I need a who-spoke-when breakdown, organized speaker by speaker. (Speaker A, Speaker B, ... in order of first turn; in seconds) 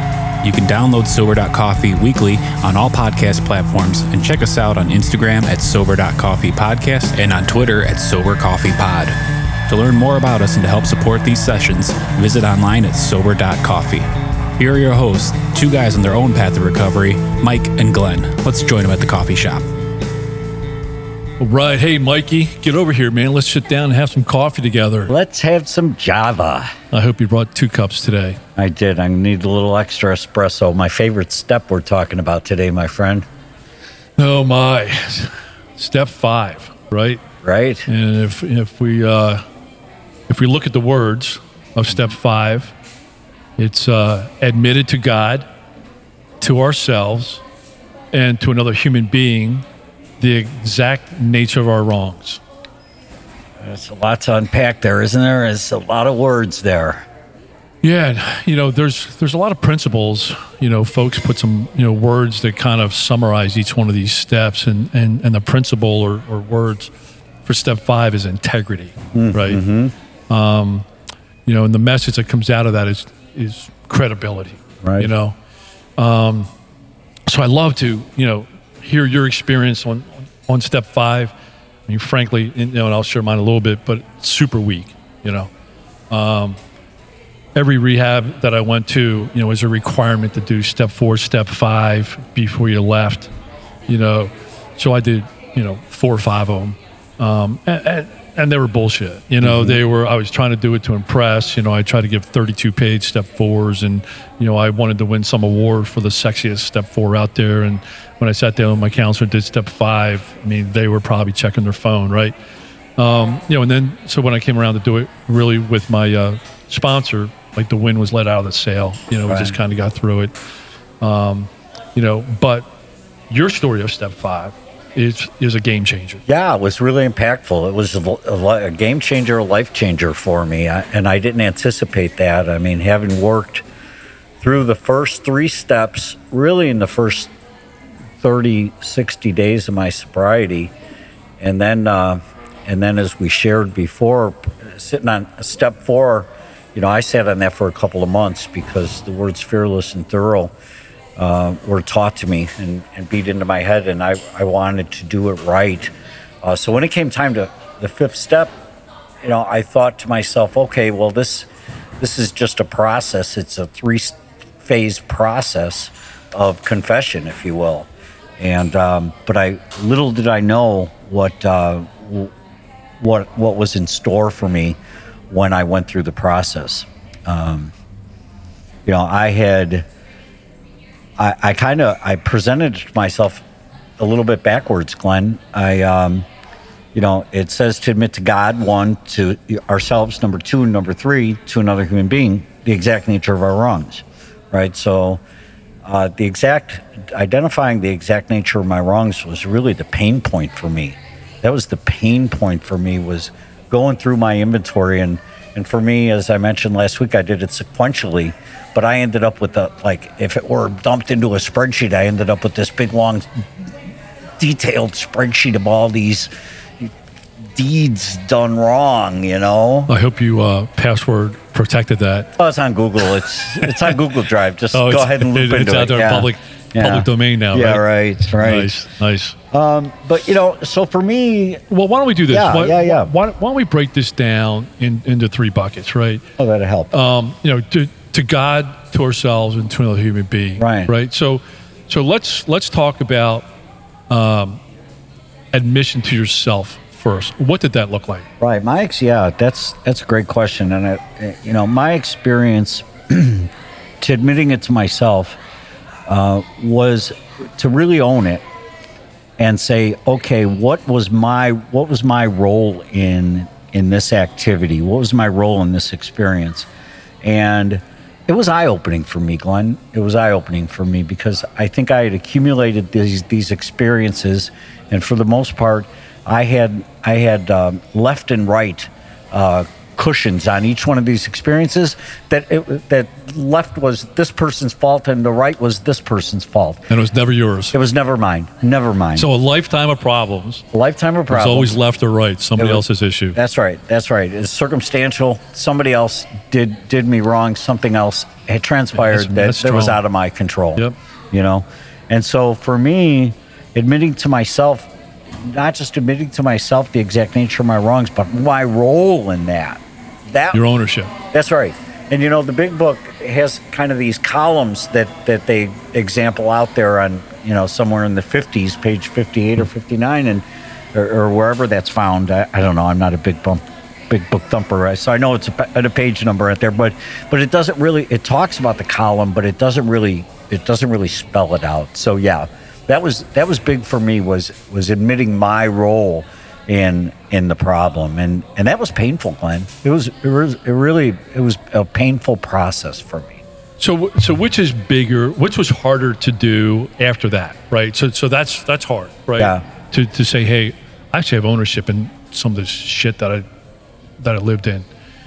Speaker A: 0.4-9.2, 9.7-19.6
Speaker B: 21.4-25.1, 26.9-28.4, 34.2-37.2, 37.9-39.4, 40.3-42.7, 43.6-45.4, 46.4-47.4, 48.1-49.6, 50.2-52.4, 57.8-66.9, 67.4-69.6, 70.3-70.8, 71.4-75.3, 76.0-76.5, 77.3-81.3, 81.9-85.5, 86.1-86.6, 87.5-93.3, 93.9-112.3, 113.0-120.4, 121.0-122.7, 123.3-126.2, 219.9-222.3, 224.7-227.8, 228.4-229.3, 231.7-236.2, 236.9-243.4, 244.1-244.6, 245.5-248.3, 286.9-287.8, 289.2-290.6, 291.3-293.4, 298.9-300.0, 310.5-311.1, 343.8-353.4, 354.2-354.9
Speaker C: 25.1-26.7, 28.6-33.2, 37.4-37.9, 53.6-57.0, 69.1-69.9, 74.8-75.1, 99.4-99.8, 119.3-119.6, 126.3-133.6, 134.4-137.3, 138.2-140.7, 141.4-150.5, 151.2-155.9, 156.4-158.5, 159.2-161.5, 162.0-172.3, 173.0-174.8, 175.3-177.7, 178.8-179.8, 181.2-183.4, 184.0-186.2, 186.9-195.2, 195.8-213.3, 214.4-216.9, 217.5-219.9, 222.4-228.8, 229.5-231.6, 232.3-233.1, 236.4-236.9, 240.6-240.9, 248.4-253.5, 254.0-255.4, 256.1-258.4, 259.4-266.7, 267.2-286.9, 287.7-289.3, 290.7-291.8, 292.6-310.6, 311.3-343.4, 349.4-349.6